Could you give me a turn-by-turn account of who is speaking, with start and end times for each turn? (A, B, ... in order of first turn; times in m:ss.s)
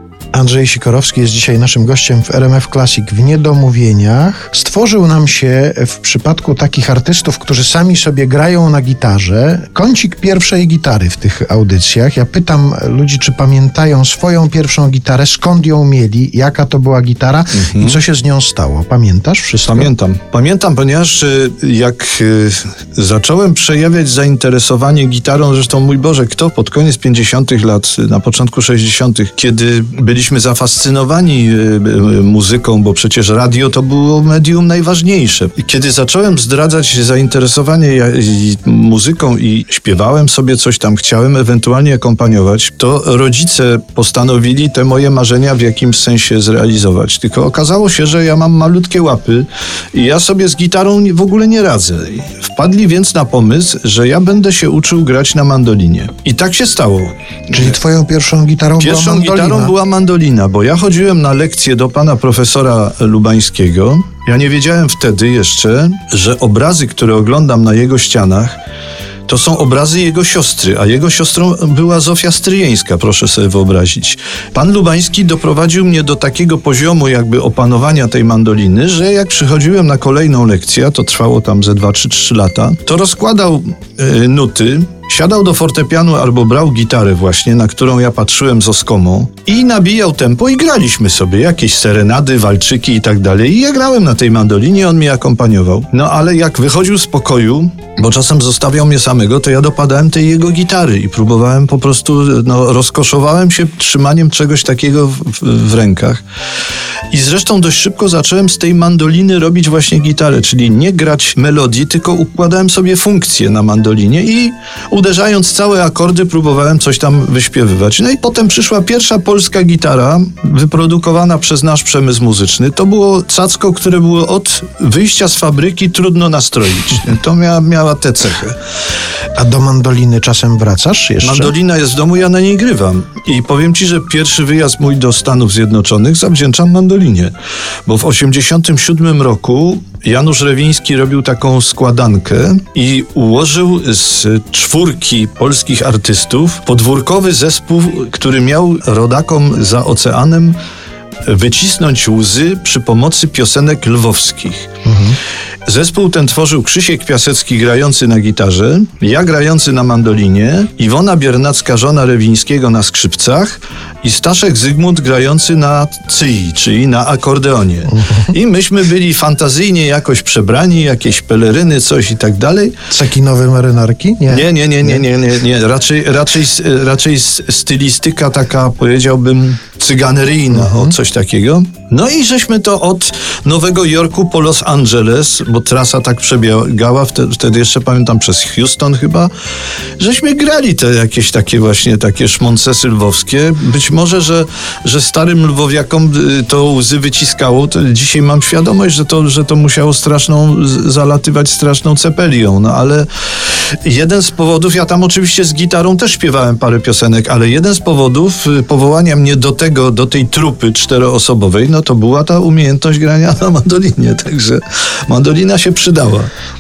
0:00.3-0:19.9 A
0:17.6-0:18.0 B
0:19.6-0:57.8 B
0:57.5-0:59.7 A
0:58.8-1:08.6 B
1:09.3-1:46.2 B
1:47.1-2:08.6 B
2:09.4-2:11.5 A
2:11.2-2:17.3 B
2:17.9-2:30.6 B
2:31.2-2:34.7 B
2:34.9-2:35.2 A
2:35.7-2:52.8 B
2:47.9-2:48.3 A
2:52.9-2:55.0 A
2:54.3-3:09.3 B
3:00.5-3:01.0 A
3:10.0-3:23.1 B
3:23.8-3:36.3 B